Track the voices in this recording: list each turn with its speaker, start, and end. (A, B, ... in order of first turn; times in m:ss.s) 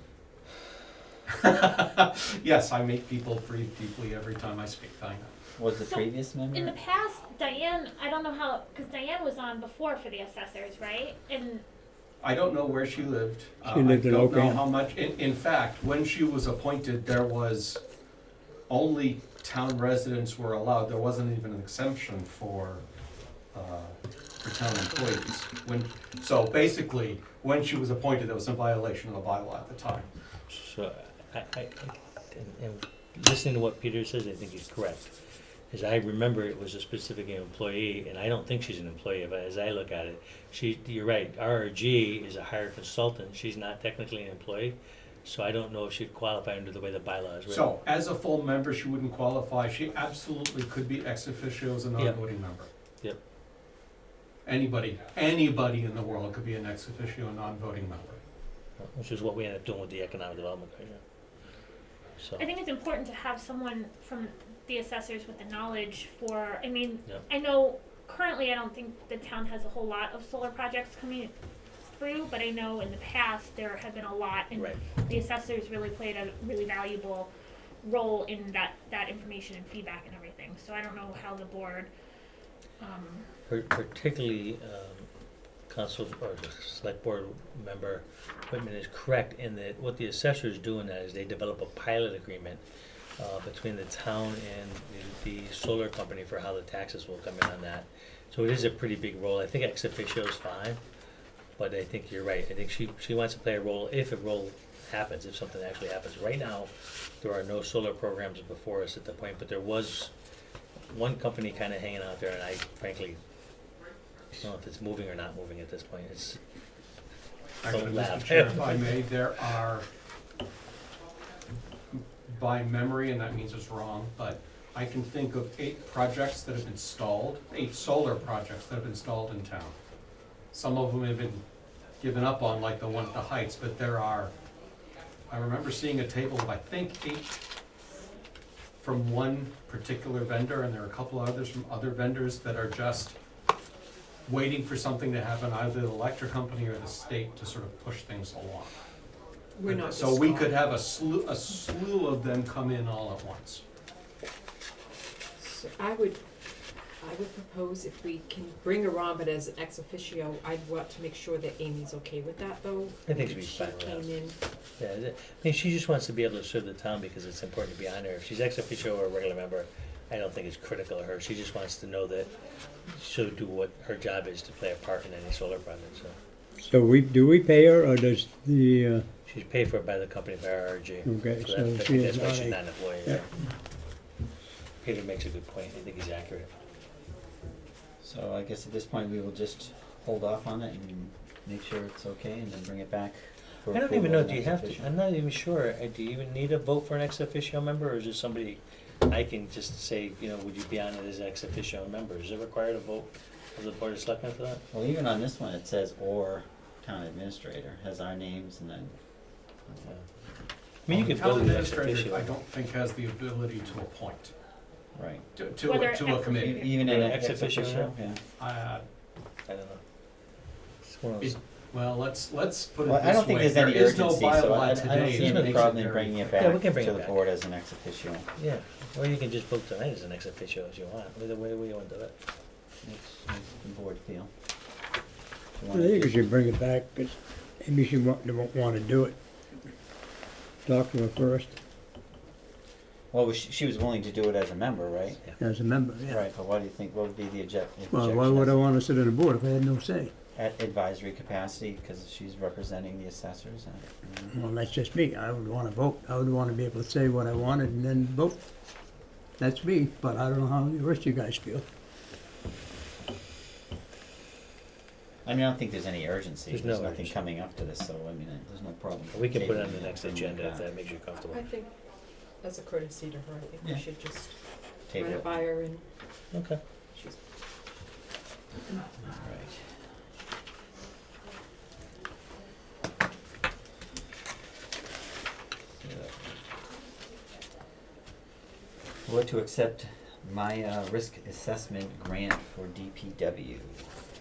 0:01.3-0:05.4 A
0:05.6-0:06.7 B
0:05.8-0:11.6 C
0:12.2-0:17.8 A
0:13.7-0:14.6 D
0:18.7-0:22.8 A
0:23.5-0:30.1 A
0:30.5-0:35.1 E
0:35.7-0:47.7 E
0:47.5-0:52.7 A
0:54.4-0:58.2 A
0:58.8-1:01.0 E
1:02.2-1:02.4 E
1:02.4-1:11.3 C
1:11.9-1:17.3 C
1:14.5-1:14.8 E
1:17.8-1:21.9 C
1:22.8-1:23.2 C
1:23.5-1:25.1 E
1:25.7-1:32.6 E
1:33.2-1:40.8 E
1:41.6-1:50.1 E
1:50.9-1:53.2 E
1:54.4-1:56.4 E
1:57.6-1:59.8 A
1:57.7-1:59.0 E
2:01.9-2:09.8 A
2:10.5-2:11.4 A
2:12.0-2:14.3 A
2:15.3-2:17.4 A
2:18.8-2:23.2 A
2:24.2-2:28.7 A
2:29.6-2:30.6 F
2:29.6-2:33.6 A
2:35.4-2:36.2 F
2:37.0-2:44.4 F
2:43.0-2:44.2 E
2:44.8-2:52.3 E
2:52.9-2:56.2 E
2:56.6-2:59.0 D
2:59.2-3:03.2 E
3:01.0-3:03.2 D
3:04.8-3:06.5 E
3:08.0-3:14.9 B
3:13.7-3:24.6 E
3:24.7-3:28.9 B
3:29.7-3:30.0 B
3:30.8-3:32.3 E
3:30.9-3:34.3 A
3:35.0-3:35.2 B
3:35.4-3:36.7 A
3:35.7-3:36.8 C
3:36.1-3:38.2 B
3:36.8-3:37.9 E
3:38.4-3:38.8 A
3:39.5-3:39.8 E
3:40.8-3:41.4 E
3:41.2-3:46.4 A
3:42.8-3:48.3 B
3:44.9-3:47.2 E
3:48.4-3:52.1 E
3:52.8-3:54.3 B
3:55.5-3:56.3 B
3:55.7-3:59.2 D
4:00.6-4:01.6 D
4:03.1-4:05.2 B
4:05.4-4:06.2 D
4:06.1-4:08.6 B
4:07.9-4:10.1 D
4:10.3-4:13.9 B
4:14.3-4:18.4 D
4:19.4-4:21.6 D
4:25.2-4:30.7 B
4:26.5-4:27.2 E
4:29.1-4:31.4 E
4:31.3-4:31.8 F
4:32.4-4:34.4 F
4:34.9-4:35.4 B
4:34.9-4:35.8 F
4:36.3-4:36.6 E
4:36.9-4:37.2 F
4:39.0-4:39.7 B
4:45.8-4:46.2 B
4:49.0-4:53.8 B